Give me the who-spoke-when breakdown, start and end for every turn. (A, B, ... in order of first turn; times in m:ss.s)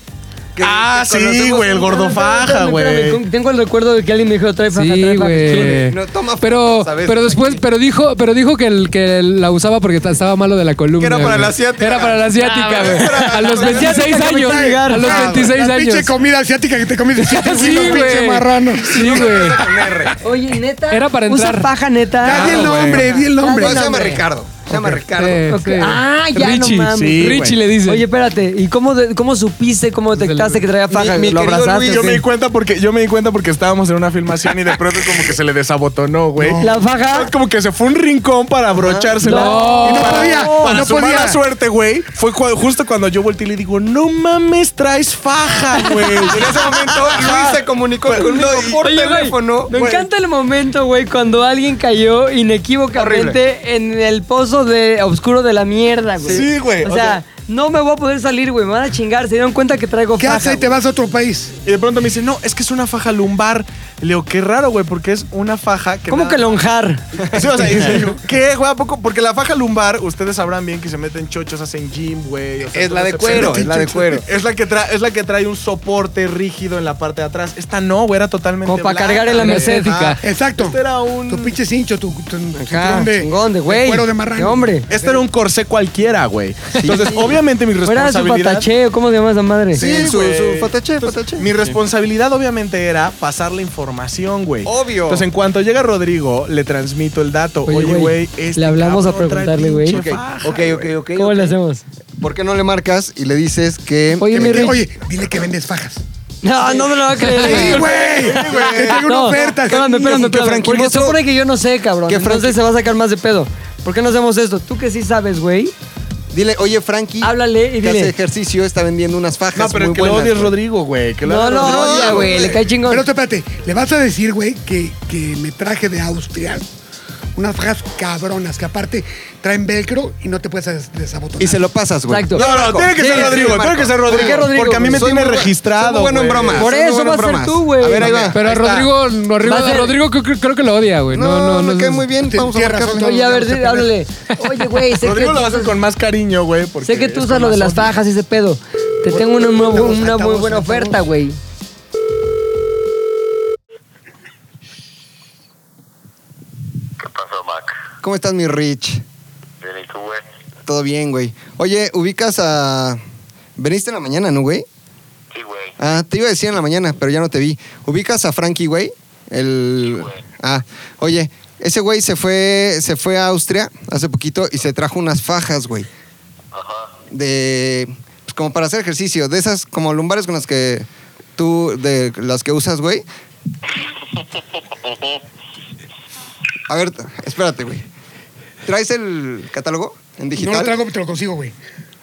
0:00.5-0:01.9 A
0:00.6-0:03.2 B
0:01.7-0:05.9 C
0:04.7-0:16.1 D
0:05.6-0:07.6 A
0:11.0-0:14.2 A
0:13.6-0:15.4 C
0:14.2-0:19.4 E
0:17.2-0:19.9 D
0:18.8-0:20.2 A
0:20.2-0:24.2 C
0:20.9-0:21.7 D
0:22.2-0:24.1 E
0:22.3-0:23.1 B
0:22.4-0:25.5 A
0:25.0-0:28.0 D
0:25.5-0:32.2 C
0:26.9-0:27.6 B
0:30.1-0:30.6 D
0:30.9-0:32.2 A
0:31.8-0:48.8 B
0:36.4-0:36.8 E
0:36.6-0:37.3 C
0:38.8-0:39.2 A
0:39.2-0:40.8 C
0:39.3-0:40.3 D
0:39.8-0:41.4 E
0:46.3-0:49.7 A
0:48.8-1:00.7 C
0:49.7-0:50.1 B
0:52.9-0:53.4 A
0:56.2-0:57.2 B
1:00.2-1:01.5 E
1:01.6-1:06.6 B
1:06.1-1:08.1 C
1:07.3-1:21.5 B
1:12.7-1:14.2 A
1:13.2-1:14.0 E
1:18.6-1:20.0 C
1:19.4-1:20.2 D
1:20.2-1:25.2 E
1:22.5-1:24.8 C
1:24.9-1:28.7 B
1:26.8-1:27.4 A
1:27.8-1:29.8 C
1:29.7-1:31.5 A
1:29.7-1:40.9 B
1:34.6-1:35.2 A
1:37.6-1:40.0 C
1:39.9-1:41.6 A
1:41.2-1:41.8 C
1:42.2-1:44.7 A
1:44.2-1:44.8 C
1:44.3-1:46.0 E
1:46.4-1:47.9 C
1:47.2-1:47.7 D
1:47.4-1:50.3 E
1:47.4-1:48.6 A
1:47.6-1:49.3 B
1:48.8-1:55.7 C
1:49.7-1:51.2 A
1:52.1-1:52.6 A
1:56.3-2:00.6 A
1:57.2-1:58.1 C
1:59.5-2:02.4 B
2:01.2-2:03.0 C
2:01.6-2:02.5 A
2:02.3-2:06.6 E
2:07.4-2:11.6 E
2:11.4-2:18.4 A
2:12.1-2:15.1 C
2:12.3-2:16.7 B
2:16.5-2:18.3 C
2:17.9-2:18.9 B
2:18.3-2:22.1 D
2:19.4-2:20.0 C
2:21.1-2:23.4 A
2:22.2-2:23.9 E
2:22.9-2:25.7 C
2:25.0-2:28.0 B
2:26.8-2:31.4 C
2:29.1-2:31.0 E
2:37.0-2:37.8 F
2:38.0-2:39.0 A
2:39.6-2:40.2 F
2:40.6-2:43.0 A
2:43.6-2:44.6 A
2:45.3-2:45.8 F
2:45.8-2:55.9 A
2:49.8-2:50.2 F
2:56.5-2:57.0 F
2:57.1-3:03.0 A
3:04.2-3:05.2 F
3:06.7-3:07.8 A
3:08.6-3:10.8 A
3:10.4-3:11.5 E